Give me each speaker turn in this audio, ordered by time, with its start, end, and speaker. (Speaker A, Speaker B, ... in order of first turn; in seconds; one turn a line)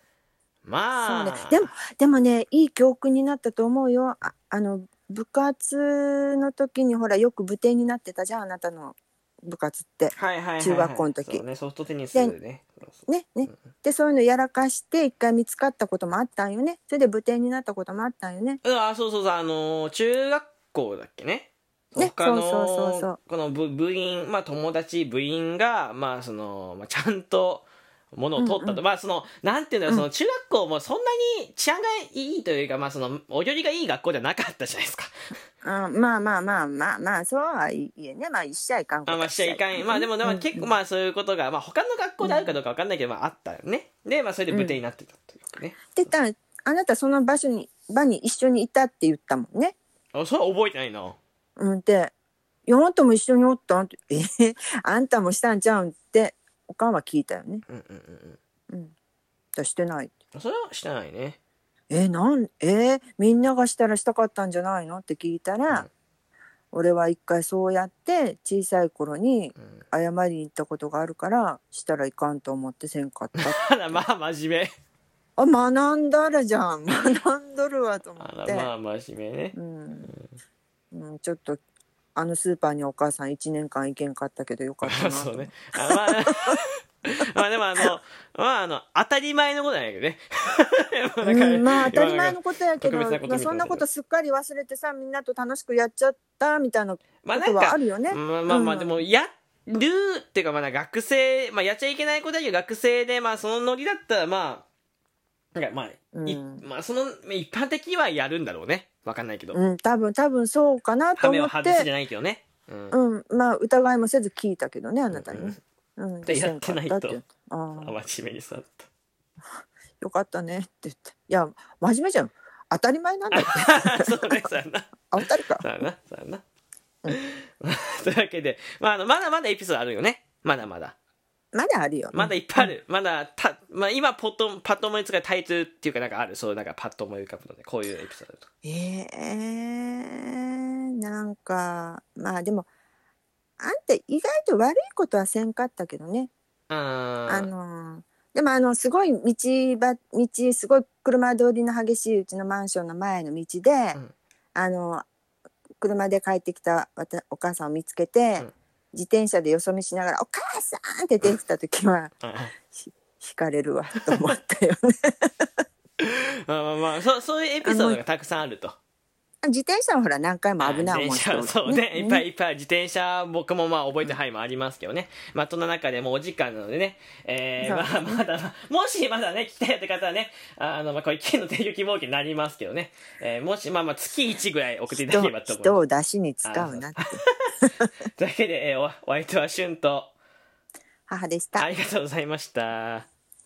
Speaker A: 0.6-1.7
Speaker B: 1.0-11.4
Speaker A: 10.1-13.6
Speaker B: 13.1-18.6
Speaker A: 18.6-35.1
Speaker B: 22.0-23.2
Speaker B: 28.4-28.8
Speaker B: 35.6-40.7
Speaker A: 39.1-46.0
Speaker B: 42.2-42.5
Speaker B: 44.5-44.8
Speaker B: 46.0-49.8
Speaker A: 50.1-51.2
Speaker B: 51.6-52.1
Speaker B: 52.7-57.6
Speaker A: 57.7-58.4
Speaker B: 59.5-60.1
Speaker A: 60.3-61.4
Speaker B: 61.9-65.9
Speaker B: 66.7-74.0
Speaker A: 73.4-74.7
Speaker B: 75.4-78.7
Speaker A: 78.2-80.4
Speaker B: 79.5-80.1
Speaker B: 80.9-81.6
Speaker B: 82.2-86.6
Speaker A: 84.8-93.8
Speaker B: 91.2-99.1
Speaker A: 97.2-104.7
Speaker A: 105.5-109.6
Speaker B: 106.1-106.7
Speaker B: 109.5-111.9
Speaker A: 111.2-113.0
Speaker B: 112.9-118.0
Speaker A: 115.1-115.6
Speaker A: 116.3-117.2
Speaker A: 117.8-118.9
Speaker B: 120.0-124.5
Speaker A: 123.3-126.4
Speaker B: 125.1-125.7
Speaker A: 127.1-131.0
Speaker B: 131.5-132.7
Speaker A: 132.1-138.5
Speaker B: 138.6-142.7
Speaker B: 143.6-146.3
Speaker A: 146.7-147.5
Speaker B: 147.3-154.0
Speaker B: 154.6-155.1
Speaker B: 155.8-162.2
Speaker A: 162.2-162.5
Speaker B: 162.7-165.5
Speaker A: 166.0-168.8
Speaker B: 167.6-168.0
Speaker B: 169.4-172.3
Speaker A: 170.6-185.8
Speaker B: 177.6-178.2
Speaker B: 184.9-187.7
Speaker A: 186.4-187.5
Speaker A: 188.2-190.1
Speaker B: 191.1-191.7
Speaker A: 191.6-193.1